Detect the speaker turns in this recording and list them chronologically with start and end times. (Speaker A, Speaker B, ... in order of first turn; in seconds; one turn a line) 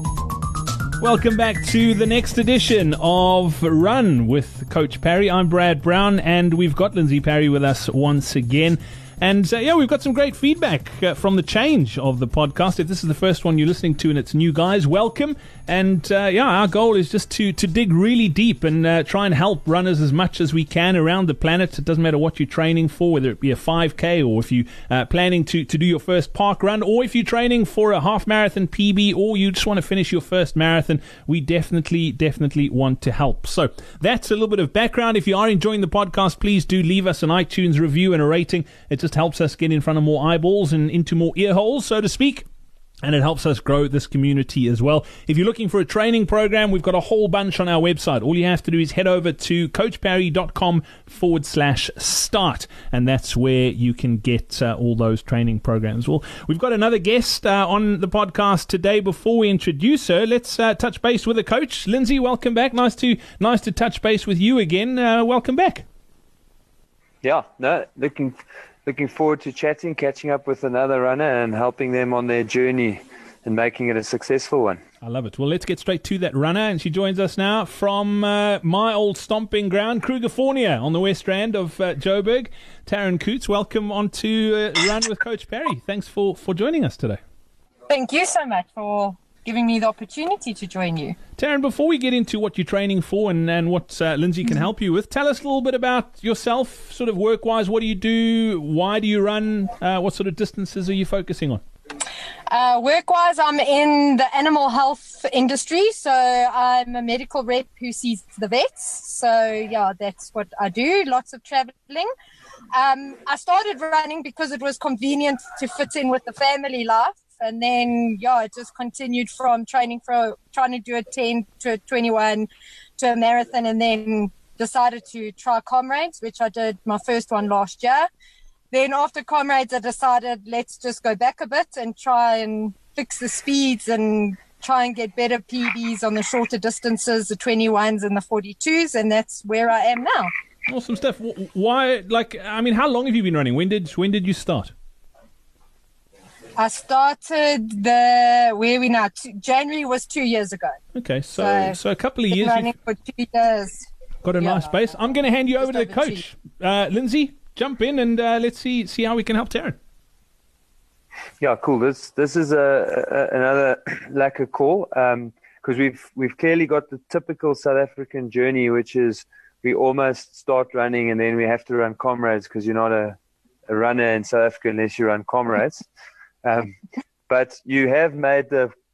Speaker A: 1.0-42.4
Speaker A: 43.0-65.8
Speaker B: 67.2-74.8
Speaker A: 75.0-87.2
Speaker C: 87.9-91.2
Speaker A: 91.4-101.6
Speaker C: 102.5-112.1
Speaker C: 112.7-128.1
Speaker C: 128.7-140.3
Speaker A: 140.7-144.7
Speaker C: 146.6-150.8
Speaker A: 150.9-152.7
Speaker C: 151.3-151.8
Speaker C: 152.3-153.9
Speaker A: 154.2-159.8
Speaker C: 154.4-155.0
Speaker C: 155.6-156.2
Speaker B: 161.4-175.9
Speaker B: 176.4-176.8
Speaker B: 177.3-178.7